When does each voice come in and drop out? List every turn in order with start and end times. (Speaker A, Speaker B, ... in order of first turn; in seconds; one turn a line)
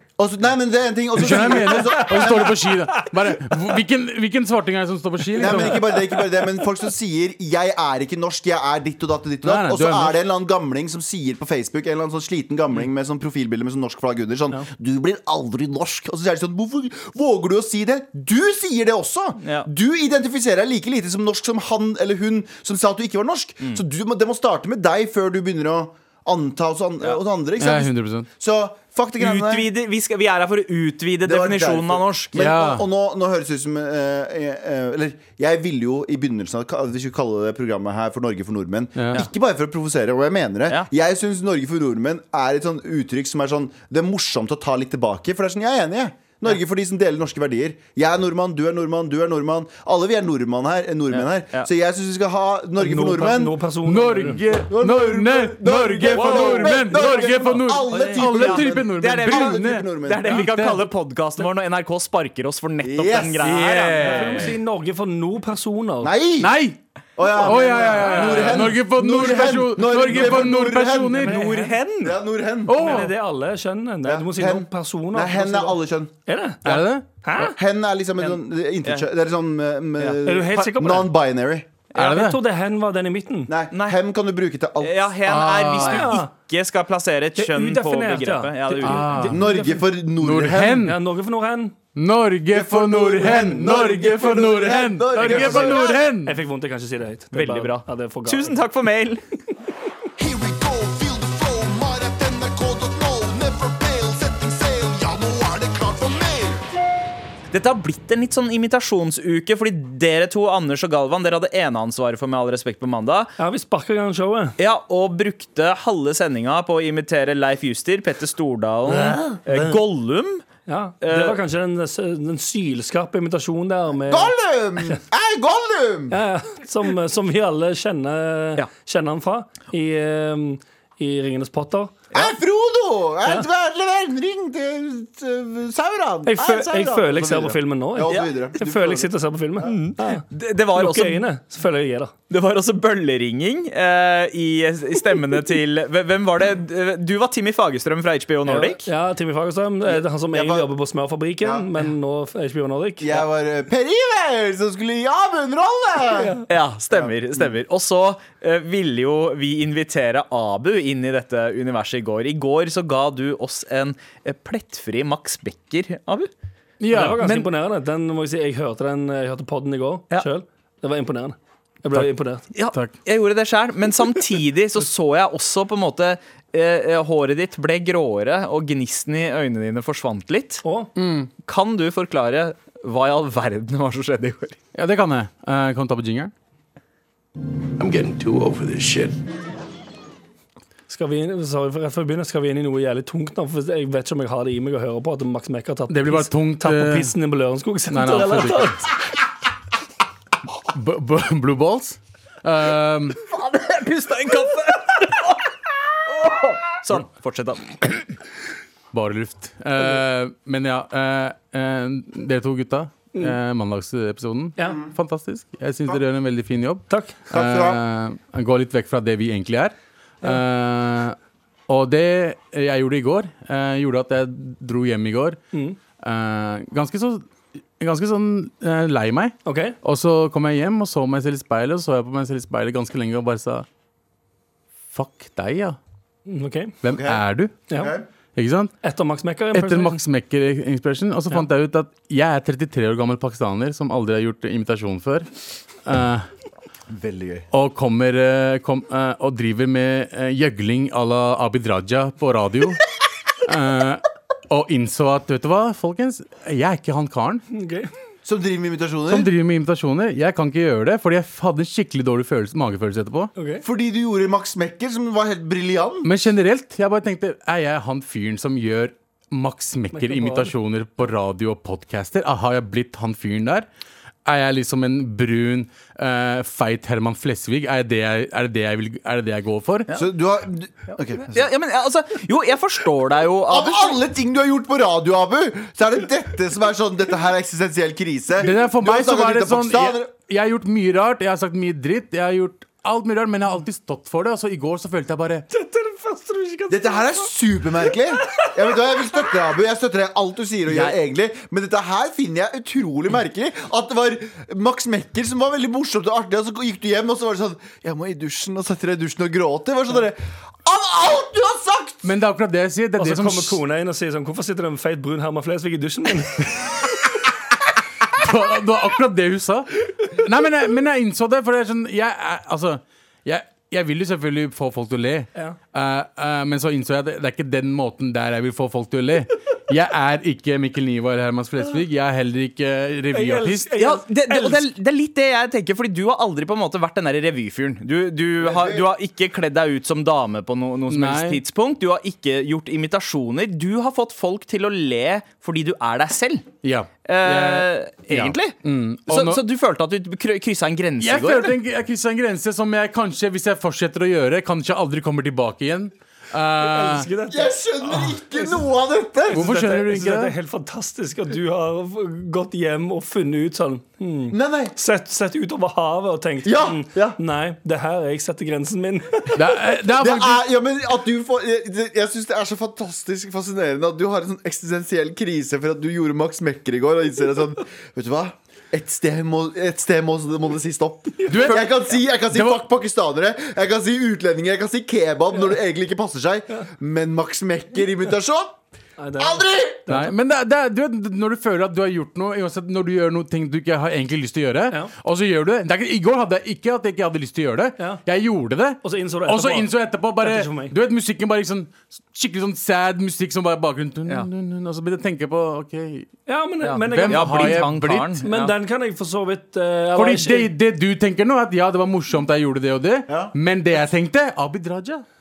Speaker A: 0.2-3.0
Speaker B: 1.1-5.9
Speaker C: 5.4-6.2
Speaker A: 5.4-29.7
Speaker B: 9.4-10.2
Speaker D: 19.4-19.7
Speaker B: 27.6-28.3
Speaker D: 29.2-32.5
Speaker A: 31.2-53.6
Speaker B: 32.4-32.8
Speaker D: 51.1-51.7
Speaker C: 52.8-54.4
Speaker B: 53.8-60.8
Speaker A: 54.7-60.5
Speaker D: 56.1-57.4
Speaker C: 57.9-58.2
Speaker D: 58.2-64.5
Speaker A: 62.8-63.5
Speaker B: 63.4-64.5
Speaker C: 64.0-66.1
Speaker A: 66.0-66.6
Speaker B: 66.4-66.8
Speaker A: 67.2-71.4
Speaker B: 67.3-71.5
Speaker C: 67.8-68.5
Speaker D: 67.8-68.6
Speaker C: 71.2-71.7
Speaker D: 71.2-72.2
Speaker A: 72.0-72.9
Speaker B: 72.7-73.1
Speaker C: 72.8-77.6
Speaker A: 74.0-76.1
Speaker B: 76.6-77.0
Speaker A: 77.5-81.7
Speaker C: 80.2-81.1
Speaker C: 81.9-83.5
Speaker B: 82.0-82.4
Speaker A: 83.5-85.1
Speaker D: 83.7-84.0
Speaker D: 84.8-89.2
Speaker B: 85.2-86.2
Speaker C: 85.8-86.3
Speaker C: 87.3-89.9
Speaker B: 88.8-89.4
Speaker A: 89.3-90.9
Speaker B: 90.2-91.0
Speaker C: 90.8-91.8
Speaker B: 91.9-96.4
Speaker A: 92.5-96.0
Speaker C: 95.1-98.6
Speaker D: 97.3-99.2
Speaker E: 100.2-106.6
Speaker D: 107.5-113.3
Speaker C: 113.4-114.5
Speaker D: 114.6-120.4
Speaker C: 119.5-119.8
Speaker C: 120.7-124.3
Speaker D: 121.0-121.4
Speaker A: 124.1-126.2
Speaker C: 126.1-132.0
Speaker A: 132.1-139.1
Speaker C: 136.2-142.1
Speaker D: 139.6-141.2
Speaker D: 142.3-148.8
Speaker C: 148.4-153.2
Speaker A: 149.9-150.7
Speaker A: 151.4-151.7
Speaker A: 153.0-156.4
Speaker C: 156.1-156.4
Speaker D: 156.5-166.3
Speaker B: 166.8-167.3
Speaker C: 166.9-172.4
Speaker D: 167.2-167.5
Speaker D: 172.5-180.6
Speaker C: 180.6-180.9
Speaker B: 180.9-181.3
Speaker D: 181.4-184.6
Speaker B: 184.7-186.3
Speaker E: 187.8-189.2
Speaker C: 190.9-198.9
Speaker B: 195.9-197.1
Speaker B: 197.9-198.9
Speaker B: 200.7-203.2
Speaker D: 203.2-205.4
Speaker D: 206.1-207.9
Speaker B: 208.9-221.2
Speaker C: 216.9-217.2
Speaker A: 217.3-217.8
Speaker B: 221.7-225.4
Speaker C: 225.5-225.8
Speaker B: 226.0-227.2
Speaker B: 227.8-233.7
Speaker C: 229.4-229.8
Speaker B: 234.9-235.8
Speaker C: 236.3-236.8
Speaker B: 236.8-237.6
Speaker A: 236.8-238.0
Speaker B: 238.3-238.7
Speaker C: 238.8-240.0
Speaker B: 239.5-245.3
Speaker B: 245.8-246.3
Speaker A: 246.9-247.5
Speaker B: 247.5-252.8
Speaker B: 253.4-257.4
Speaker C: 257.5-257.9
Speaker A: 258.2-259.3
Speaker B: 259.1-263.3
Speaker C: 263.4-263.6
Speaker A: 263.6-266.1
Speaker B: 266.0-273.7
Speaker C: 269.9-270.5
Speaker B: 274.2-279.9
Speaker A: 279.9-281.4
Speaker D: 281.2-284.0
Speaker A: 283.5-290.1
Speaker B: 288.4-295.4
Speaker C: 295.5-297.3
Speaker A: 296.7-312.1
Speaker C: 298.2-298.6
Speaker D: 300.7-300.9
Speaker B: 312.0-313.6
Speaker C: 313.0-316.6
Speaker B: 318.1-333.7
Speaker C: 333.1-334.7
Speaker D: 333.8-346.5
Speaker A: 338.4-338.9
Speaker B: 340.9-341.4
Speaker B: 346.6-349.4
Speaker D: 347.0-348.6
Speaker D: 349.1-351.6
Speaker B: 351.0-357.1
Speaker C: 356.6-358.6
Speaker A: 357.3-359.5
Speaker C: 359.3-369.5
Speaker B: 359.3-360.3
Speaker A: 364.3-364.7
Speaker A: 366.4-367.2
Speaker B: 369.3-370.4
Speaker A: 369.9-388.6
Speaker C: 381.2-381.5
Speaker B: 381.3-381.7
Speaker B: 382.3-382.6
Speaker C: 389.0-390.1
Speaker A: 389.2-389.9
Speaker B: 389.9-406.1
Speaker C: 398.8-400.7
Speaker C: 406.2-407.7
Speaker D: 406.6-408.5
Speaker B: 406.8-408.2
Speaker C: 408.2-410.5
Speaker B: 409.9-415.0
Speaker A: 413.1-413.3